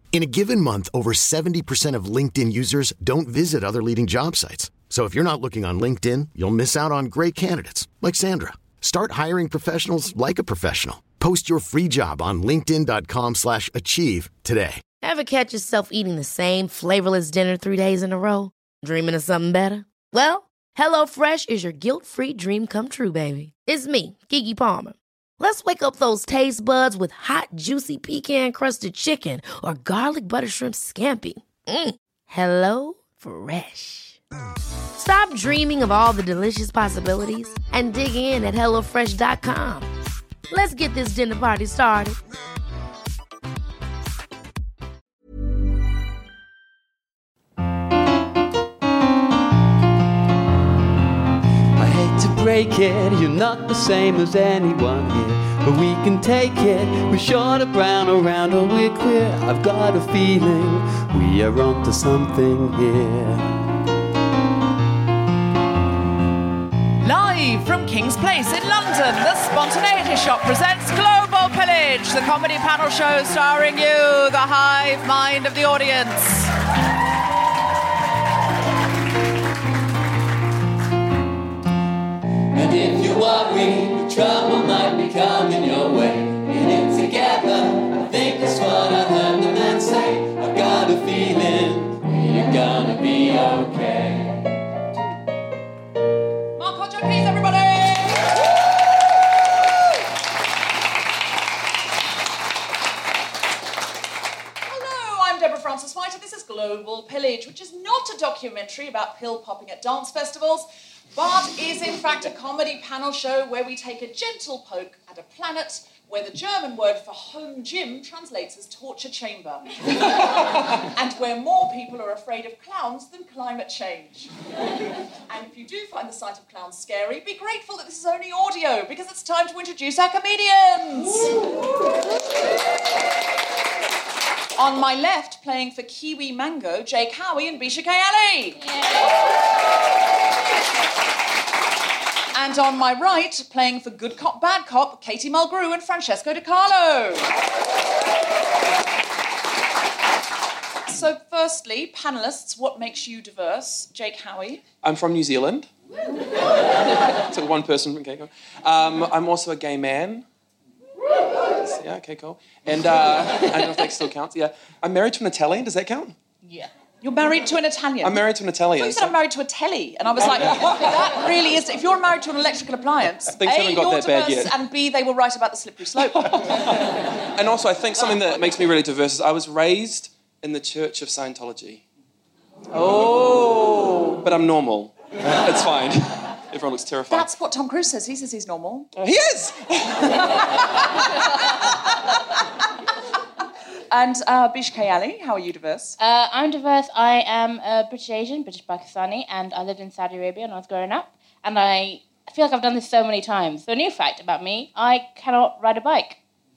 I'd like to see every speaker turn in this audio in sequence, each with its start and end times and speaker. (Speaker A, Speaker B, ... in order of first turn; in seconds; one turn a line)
Speaker A: 0.1-14.8
Speaker B: 15.0-34.2
Speaker B: 35.0-39.9
Speaker B: 40.5-42.2
Speaker C: 51.8-63.5
Speaker D: 67.0-76.5
Speaker C: 82.5-94.4
Speaker D: 96.6-98.4
Speaker D: 104.7-124.3
Speaker D: 125.3-131.4
Speaker D: 134.6-138.6
Speaker D: 142.3-147.3
Speaker D: 150.9-154.6
Speaker E: 154.8-155.7
Speaker E: 157.2-160.2
Speaker E: 161.5-166.2
Speaker D: 167.0-176.4
Speaker E: 168.0-169.2
Speaker E: 173.3-174.6
Speaker E: 177.3-181.8
Speaker E: 182.7-187.3
Speaker D: 187.1-189.0
Speaker E: 189.0-190.3
Speaker D: 193.9-196.0
Speaker F: 196.0-206.2